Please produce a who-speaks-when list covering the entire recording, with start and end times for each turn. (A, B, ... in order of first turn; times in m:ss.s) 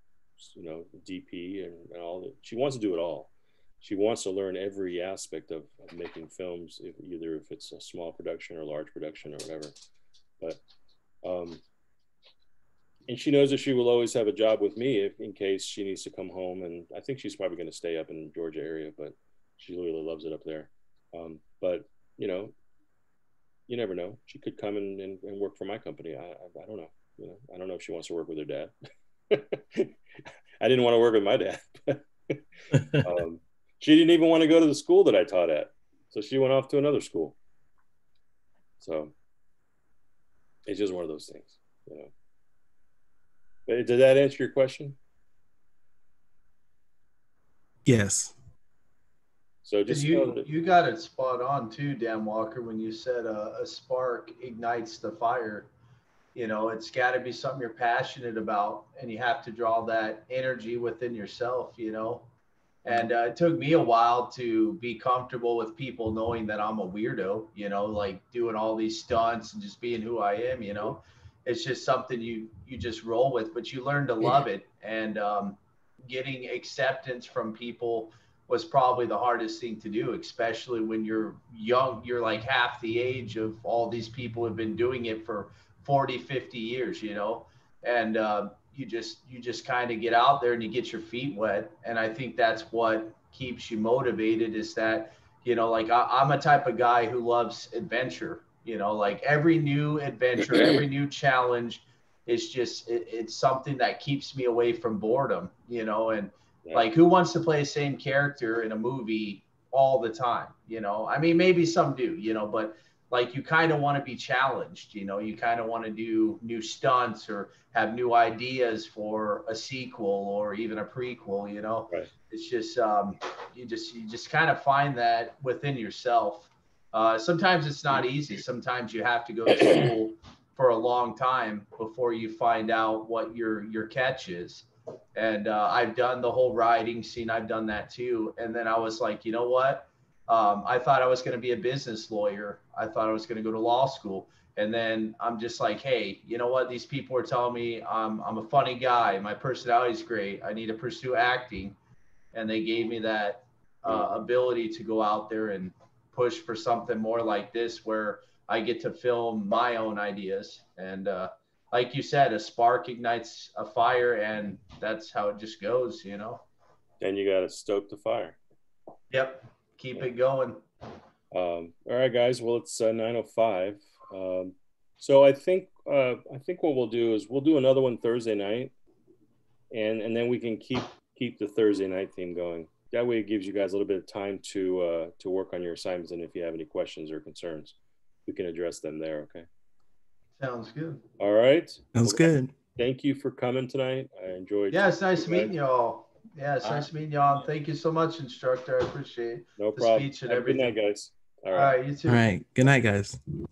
0:00.4-0:09.7 A
0:11.2-0:11.6 A
0:13.1-0:22.5 A
0:23.7-0:28.7 A
0:29.3-0:29.9 A
0:30.6-0:32.4 A
0:32.9-0:37.4 A
0:38.8-0:39.1 A
0:40.7-0:42.1 A
0:43.7-0:45.0 A
0:47.9-0:48.3 B
0:49.6-0:50.5 A
0:49.9-0:55.7 C
0:56.4-1:02.3 C
1:02.8-2:31.8 C
2:32.3-2:46.4 C
2:47.0-2:48.4 A
2:49.1-2:50.6 C
2:51.3-2:58.7 A
2:59.7-3:09.5 A
3:10.4-3:11.0 C
3:11.2-3:12.2 A
3:12.0-3:12.5 B
3:12.8-3:15.5 A
3:14.7-3:20.8 C
3:19.6-3:21.8 A
3:21.5-3:22.2 C
3:22.1-3:23.2 B